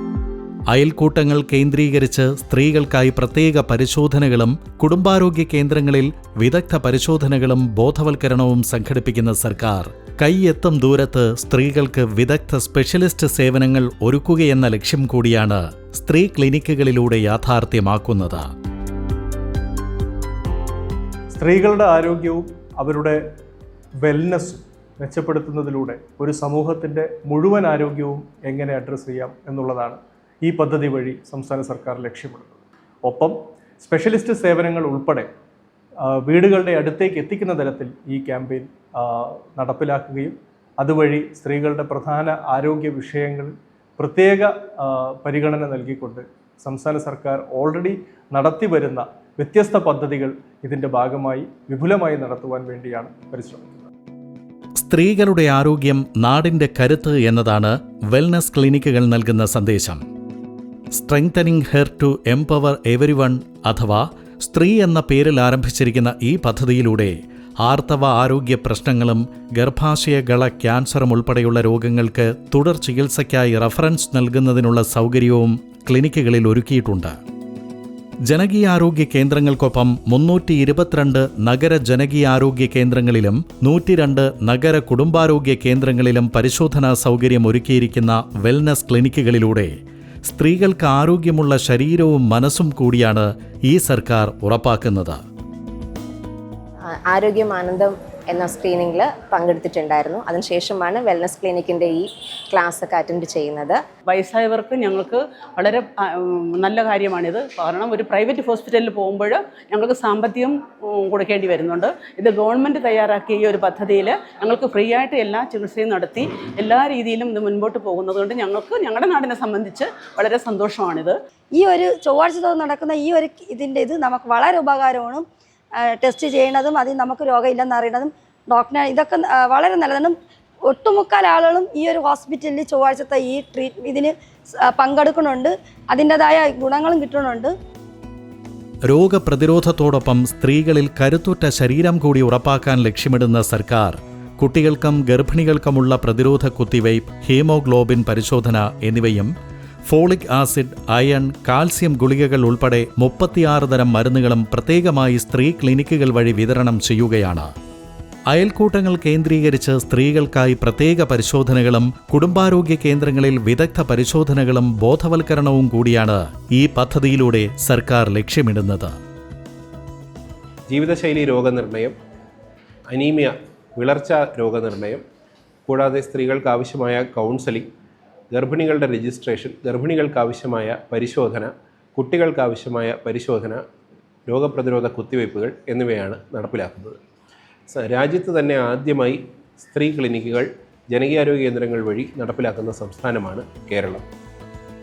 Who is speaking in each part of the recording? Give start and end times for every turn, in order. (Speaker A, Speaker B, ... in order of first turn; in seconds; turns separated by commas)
Speaker A: 0.7-18.5, Speaker B: 21.3-23.2, Speaker B: 24.0-35.3, Speaker B: 36.0-53.9, Speaker A: 54.8-60.0, Speaker A: 60.9-77.2, Speaker A: 78.2-95.2, Speaker C: 96.9-103.8, Speaker D: 104.1-121.2, Speaker E: 121.5-125.2, Speaker E: 125.8-130.2, Speaker E: 130.7-137.5, Speaker A: 138.9-149.3, Speaker A: 149.9-157.5, Speaker A: 158.3-168.9, Speaker F: 170.7-171.9, Speaker F: 172.9-175.0, Speaker F: 175.7-177.7, Speaker F: 178.3-183.6, Speaker F: 184.3-187.0, Speaker F: 187.7-194.0